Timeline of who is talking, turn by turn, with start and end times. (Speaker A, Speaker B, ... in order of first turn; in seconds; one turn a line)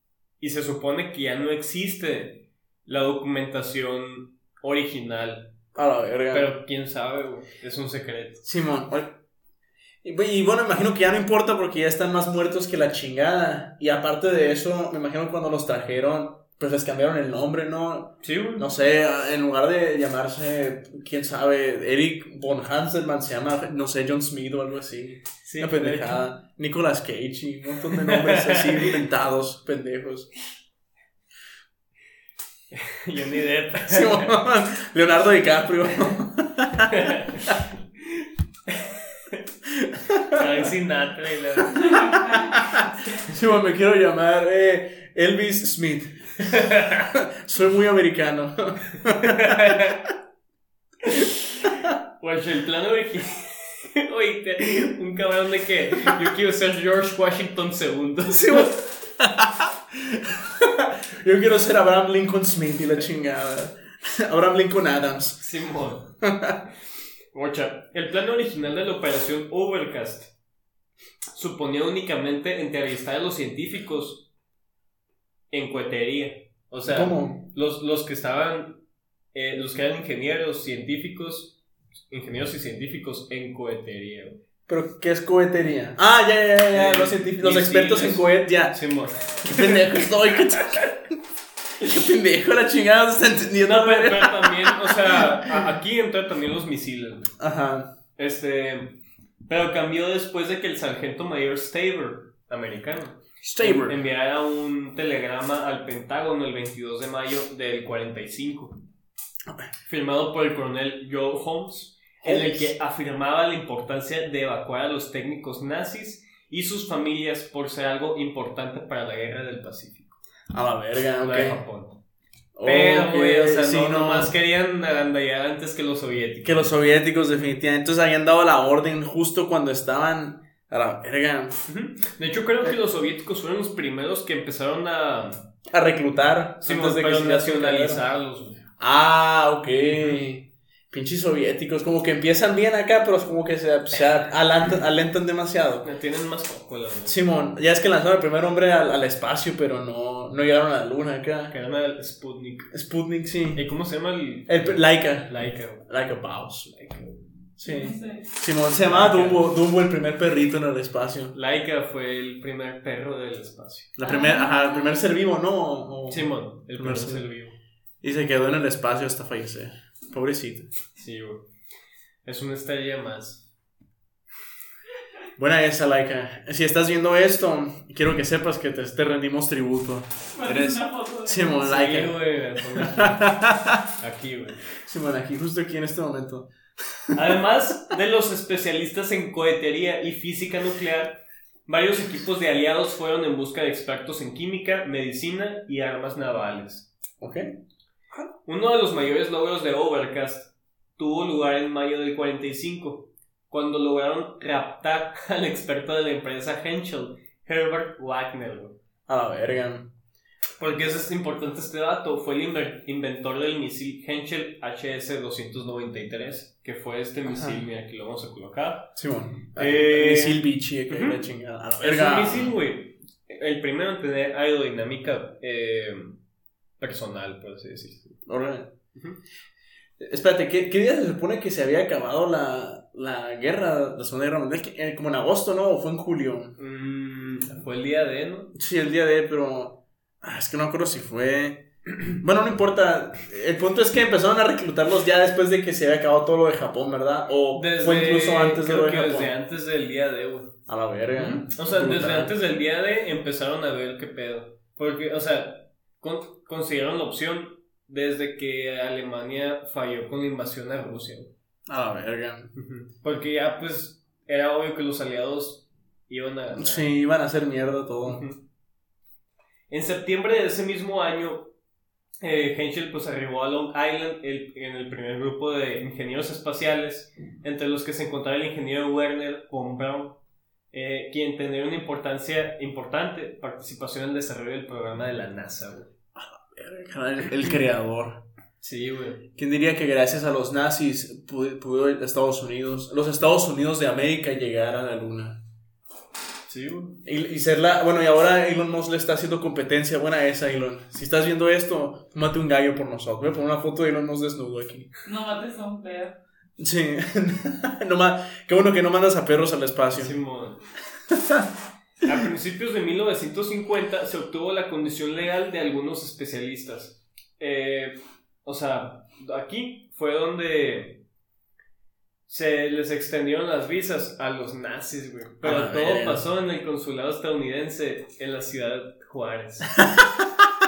Speaker A: 0.4-5.5
Speaker B: 5.8-6.5
Speaker A: 6.3-8.4
Speaker B: 8.4-9.2
Speaker B: 10.0-30.3
Speaker A: 18.2-18.7
Speaker A: 25.4-26.2
Speaker A: 27.9-29.0
Speaker A: 32.7-34.4
Speaker B: 33.9-37.0
Speaker A: 36.9-37.6
Speaker A: 38.7-39.4
Speaker B: 39.7-40.5
Speaker A: 40.3-42.2
Speaker B: 42.0-46.5
Speaker A: 46.4-47.1
Speaker B: 47.1-49.9
Speaker A: 49.0-50.1
Speaker A: 51.0-58.8
Speaker B: 58.3-65.4
Speaker A: 65.4-66.1
Speaker B: 66.2-66.6
Speaker A: 67.3-70.3
Speaker A: 71.3-74.3
Speaker A: 75.5-78.8
Speaker B: 76.9-77.5
Speaker A: 79.3-84.4
Speaker B: 84.7-88.8
Speaker A: 86.7-90.0
Speaker B: 89.4-91.2
Speaker B: 91.8-95.7
Speaker A: 93.6-97.3
Speaker B: 97.4-97.9
Speaker A: 98.2-108.8
Speaker B: 103.4-104.0
Speaker A: 109.8-120.2
Speaker B: 112.2-112.7
Speaker B: 120.5-121.6
Speaker A: 121.2-122.0
Speaker B: 122.5-124.3
Speaker A: 122.7-126.8
Speaker B: 126.4-131.6
Speaker A: 131.7-135.5
Speaker B: 135.7-138.0
Speaker A: 136.6-138.6
Speaker B: 138.8-145.9
Speaker A: 145.8-147.2
Speaker B: 147.1-151.5
Speaker A: 151.5-152.7
Speaker B: 152.7-153.6
Speaker A: 153.5-155.9
Speaker B: 154.5-156.7
Speaker A: 156.7-157.3
Speaker B: 157.6-161.3
Speaker C: 157.6-158.3
Speaker A: 158.7-159.5
Speaker A: 161.3-163.9
Speaker B: 164.0-167.2
Speaker C: 164.0-165.0
Speaker A: 166.1-167.6
Speaker B: 168.0-170.7
Speaker A: 171.0-171.5
Speaker A: 172.2-173.5
Speaker B: 175.4-183.8
Speaker C: 180.3-181.6
Speaker A: 181.6-183.4
Speaker A: 184.0-184.6
Speaker B: 184.8-186.5
Speaker B: 187.1-187.4
Speaker A: 187.1-196.9
Speaker B: 197.2-197.5
Speaker A: 198.4-208.8
Speaker B: 209.1-209.9
Speaker A: 210.6-218.9
Speaker B: 217.3-217.6
Speaker B: 219.0-222.6
Speaker A: 219.6-221.2
Speaker A: 221.8-226.2
Speaker A: 226.8-228.2
Speaker B: 228.3-228.7
Speaker A: 228.9-229.2
Speaker B: 230.0-236.6
Speaker A: 236.6-238.5
Speaker B: 238.6-249.3
Speaker A: 247.5-250.6
Speaker B: 250.7-252.3
Speaker A: 251.2-261.3
Speaker B: 261.7-262.5
Speaker A: 262.6-266.9
Speaker B: 266.6-268.2
Speaker A: 268.1-268.4
Speaker A: 269.7-271.5
Speaker A: 272.2-280.2
Speaker A: 280.7-285.9
Speaker B: 286.1-288.2
Speaker A: 288.6-289.2
Speaker B: 289.4-295.4
Speaker A: 296.5-297.0
Speaker B: 297.1-304.9
Speaker C: 305.1-306.2
Speaker B: 306.6-310.2
Speaker A: 309.9-310.6
Speaker B: 311.1-311.5
Speaker A: 312.0-321.0
Speaker A: 322.3-329.8
Speaker B: 325.4-326.2
Speaker B: 329.8-330.5